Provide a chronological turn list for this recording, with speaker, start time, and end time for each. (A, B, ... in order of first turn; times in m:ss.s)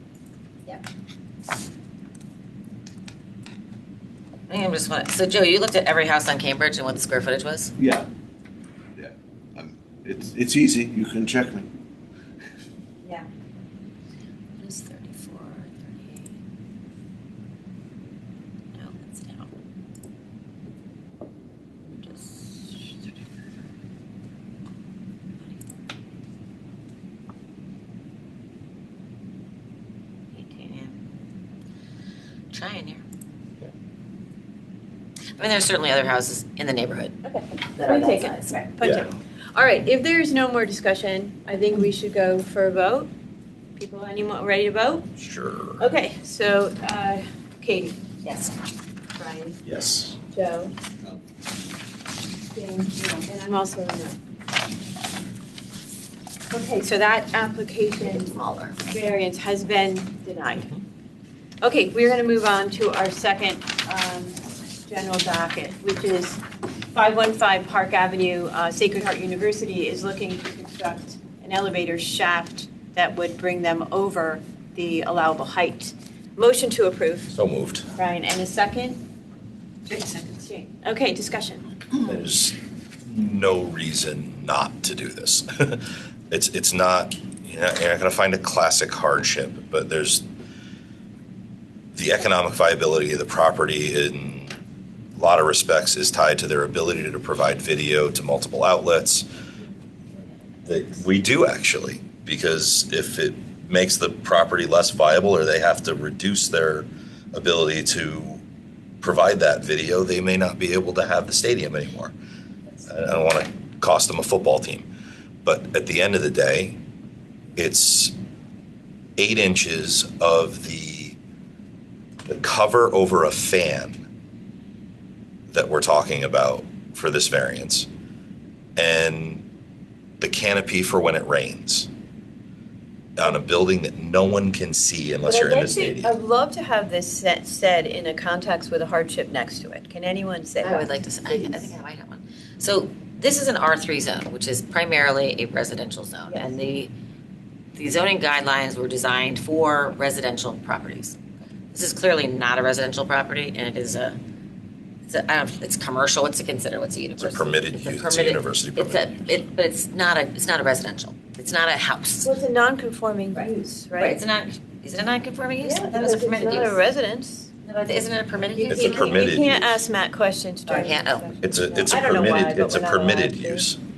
0:04.5-0:07.7 A
0:07.8-0:08.1 B
0:09.0-0:11.7 B
0:14.6-0:16.3 A
0:18.7-0:19.5 A
0:21.9-0:22.9 A
0:25.4-0:25.7 A
0:30.3-0:31.0 A
0:32.5-0:33.0 A
0:35.4-0:37.2 A
0:37.2-0:43.1 C
0:37.8-0:38.6 A
0:38.8-0:39.1 D
0:43.8-0:45.1 C
0:45.2-0:45.8 D
0:45.8-0:48.0 C
0:49.2-0:49.6 C
0:49.6-0:50.2 D
0:50.3-0:50.7 C
0:52.5-0:54.2 C
0:56.5-1:00.8 C
0:58.1-0:58.7 A
1:01.6-1:17.3 C
1:17.3-1:17.9 D
1:18.0-1:19.0 C
1:19.9-1:21.7 C
1:22.0-1:30.2 D
1:31.9-1:34.5 D
1:35.2-1:39.2 D
1:40.6-1:48.4 D
1:49.0-1:52.1 D
1:52.8-1:54.9 D
1:55.4-1:56.8 D
1:57.6-1:58.1 D
1:59.2-2:01.2 D
2:02.2-2:04.0 D
2:05.5-2:07.9 D
2:08.8-2:09.4 D
2:10.2-2:11.9 D
2:13.2-2:16.1 D
2:15.2-2:21.7 C
2:20.6-2:26.9 A
2:26.3-2:26.5 C
2:27.8-2:31.2 A
2:31.7-2:34.2 A
2:35.1-2:42.3 A
2:37.2-2:39.3 D
2:42.2-2:44.2 C
2:44.0-2:46.8 A
2:45.6-2:47.5 C
2:47.6-2:49.3 A
2:48.5-2:53.7 C
2:48.7-2:49.7 D
2:50.7-2:51.3 A
2:51.4-2:53.8 D